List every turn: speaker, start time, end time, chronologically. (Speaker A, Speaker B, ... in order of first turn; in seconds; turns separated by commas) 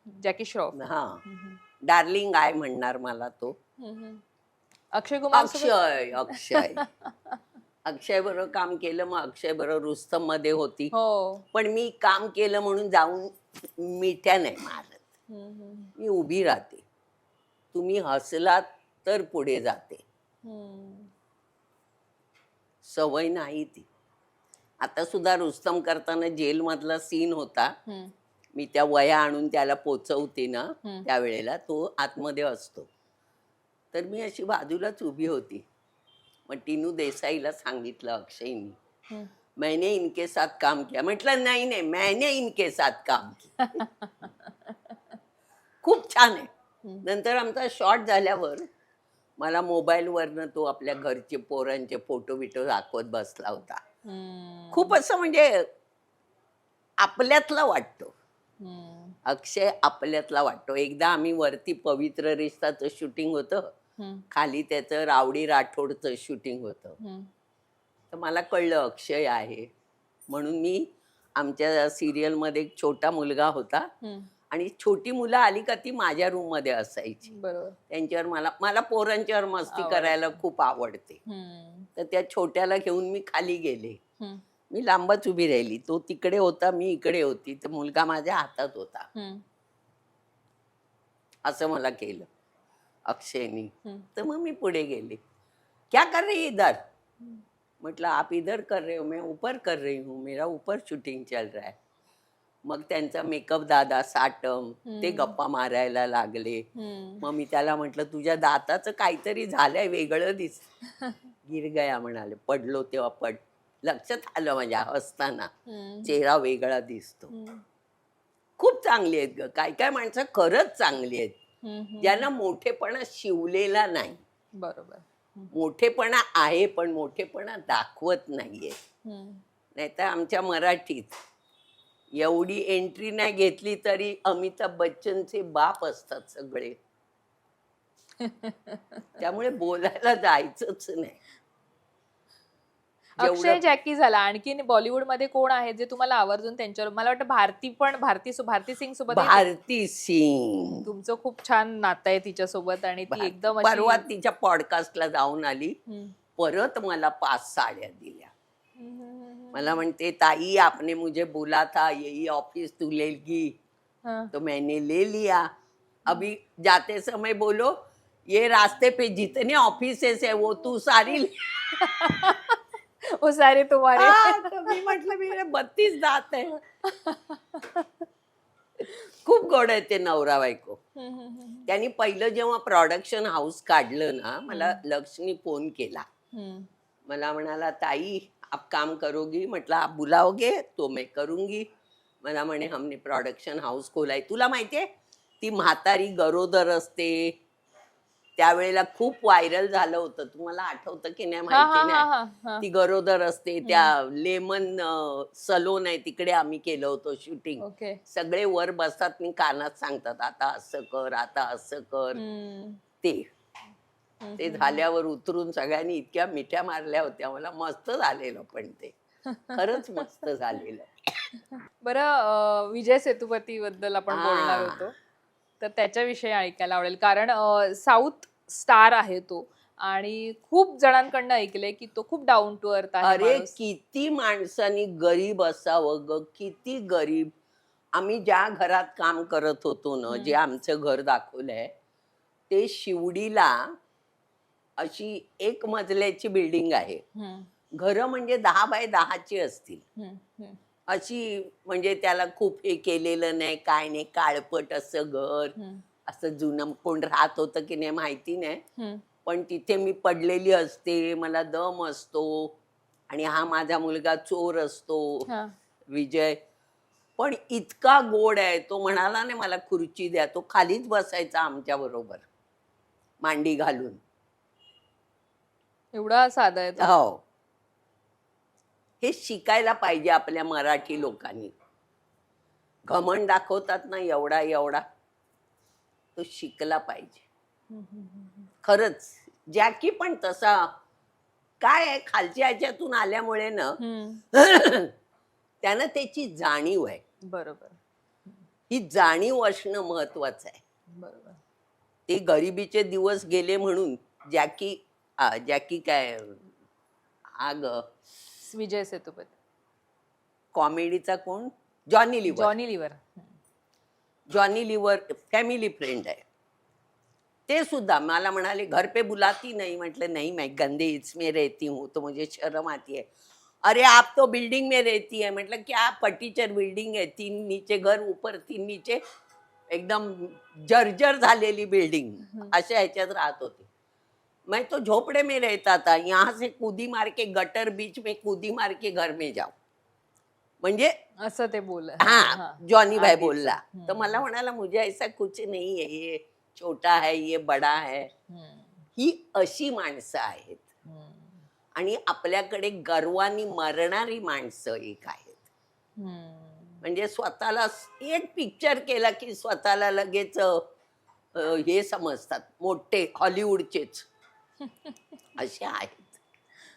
Speaker A: 0.1-1.6, Speaker B: 0.7-1.2, Speaker B: 1.9-3.5, Speaker A: 3.8-4.2, Speaker A: 5.0-7.4, Speaker B: 5.3-6.8, Speaker B: 7.9-10.9, Speaker A: 10.9-11.4, Speaker B: 11.5-15.1, Speaker A: 15.3-15.9, Speaker B: 16.0-16.8, Speaker B: 17.7-20.0, Speaker A: 20.4-21.1, Speaker B: 22.8-23.9, Speaker B: 24.8-27.7, Speaker A: 27.9-28.1, Speaker B: 28.6-32.9, Speaker B: 33.9-35.7, Speaker B: 36.5-38.8, Speaker B: 39.6-43.5, Speaker A: 43.6-45.0, Speaker B: 45.8-46.5, Speaker B: 47.0-48.6, Speaker B: 49.4-53.8, Speaker A: 54.0-55.0, Speaker B: 54.7-55.6, Speaker B: 57.0-58.1, Speaker A: 58.6-59.2, Speaker B: 59.3-63.7, Speaker A: 64.0-64.2, Speaker B: 64.3-67.0, Speaker A: 67.0-67.3, Speaker B: 68.1-69.7, Speaker B: 70.3-73.9, Speaker A: 74.0-74.3, Speaker B: 74.5-77.3, Speaker A: 77.3-77.8, Speaker B: 77.9-81.2, Speaker A: 79.7-80.4, Speaker A: 81.3-81.9, Speaker B: 82.0-84.0, Speaker B: 84.7-89.1, Speaker A: 89.2-89.4, Speaker B: 91.5-92.3, Speaker B: 93.1-95.2, Speaker B: 95.9-96.8, Speaker B: 97.8-101.8, Speaker B: 102.7-106.7, Speaker A: 104.9-105.4, Speaker A: 106.8-107.3, Speaker B: 107.2-110.7, Speaker B: 111.5-115.5, Speaker A: 115.7-116.1, Speaker B: 116.0-117.3, Speaker A: 117.3-117.6, Speaker B: 118.6-121.4, Speaker A: 121.6-122.3, Speaker B: 122.0-124.2, Speaker A: 124.6-125.5, Speaker B: 125.5-128.8, Speaker A: 129.1-129.4, Speaker B: 129.8-131.2, Speaker B: 132.2-136.8, Speaker A: 138.2-139.2, Speaker B: 139.2-141.2, Speaker A: 143.2-149.5, Speaker B: 143.2-143.7, Speaker B: 149.1-150.9, Speaker A: 150.9-154.1, Speaker B: 153.1-155.8, Speaker A: 155.9-156.2, Speaker B: 156.4-158.3, Speaker A: 158.8-159.8, Speaker B: 159.5-163.5, Speaker A: 164.1-164.3, Speaker B: 164.3-165.5, Speaker B: 166.1-167.8, Speaker B: 168.3-171.6, Speaker A: 171.8-175.0, Speaker B: 174.0-176.6, Speaker A: 176.9-177.9, Speaker B: 179.2-180.8, Speaker A: 181.0-181.7, Speaker B: 181.7-186.1, Speaker A: 184.5-184.8, Speaker A: 186.3-186.7, Speaker B: 187.1-191.7, Speaker B: 192.2-194.8, Speaker B: 195.4-197.3, Speaker B: 198.4-202.1, Speaker A: 201.5-202.7, Speaker B: 202.6-212.2, Speaker A: 203.7-203.9, Speaker A: 207.6-208.0, Speaker A: 212.2-212.8, Speaker B: 213.0-213.3, Speaker A: 214.2-214.8, Speaker B: 214.4-218.9, Speaker B: 219.5-220.9, Speaker A: 221.8-224.9, Speaker B: 224.1-224.9, Speaker A: 225.6-233.5, Speaker B: 233.0-237.3, Speaker B: 237.9-241.7, Speaker A: 240.1-240.4, Speaker B: 242.5-243.7, Speaker B: 244.8-247.0, Speaker A: 247.2-247.5, Speaker B: 247.8-249.8, Speaker A: 250.0-250.6, Speaker B: 250.9-255.6, Speaker A: 255.6-255.8, Speaker B: 256.1-258.6, Speaker A: 258.8-259.0, Speaker B: 259.2-262.5, Speaker B: 263.1-265.3, Speaker A: 265.3-265.5, Speaker B: 265.9-266.4, Speaker B: 267.2-272.3, Speaker B: 273.2-274.0, Speaker A: 275.9-276.9, Speaker B: 276.8-277.2, Speaker B: 279.0-281.5, Speaker B: 282.9-284.8, Speaker B: 286.2-287.2, Speaker A: 287.7-288.5, Speaker B: 288.6-290.7, Speaker B: 291.6-293.8, Speaker A: 293.8-294.2, Speaker B: 294.3-294.9, Speaker B: 295.6-297.0, Speaker A: 297.3-297.8, Speaker B: 298.7-300.6, Speaker A: 300.9-301.4, Speaker B: 302.1-306.4, Speaker B: 307.4-307.9, Speaker A: 308.4-309.4, Speaker B: 310.5-312.6, Speaker A: 312.3-313.2, Speaker B: 314.3-316.2, Speaker B: 317.5-323.1, Speaker B: 323.6-329.0, Speaker B: 329.7-333.7, Speaker A: 332.3-332.6, Speaker B: 334.5-339.5, Speaker B: 340.6-340.9, Speaker A: 341.2-344.2, Speaker B: 342.0-348.1, Speaker A: 348.3-348.8, Speaker B: 349.0-350.6, Speaker A: 350.9-351.4, Speaker B: 351.8-355.4, Speaker A: 356.0-356.8, Speaker B: 356.8-360.6, Speaker B: 361.4-364.1, Speaker B: 365.4-366.2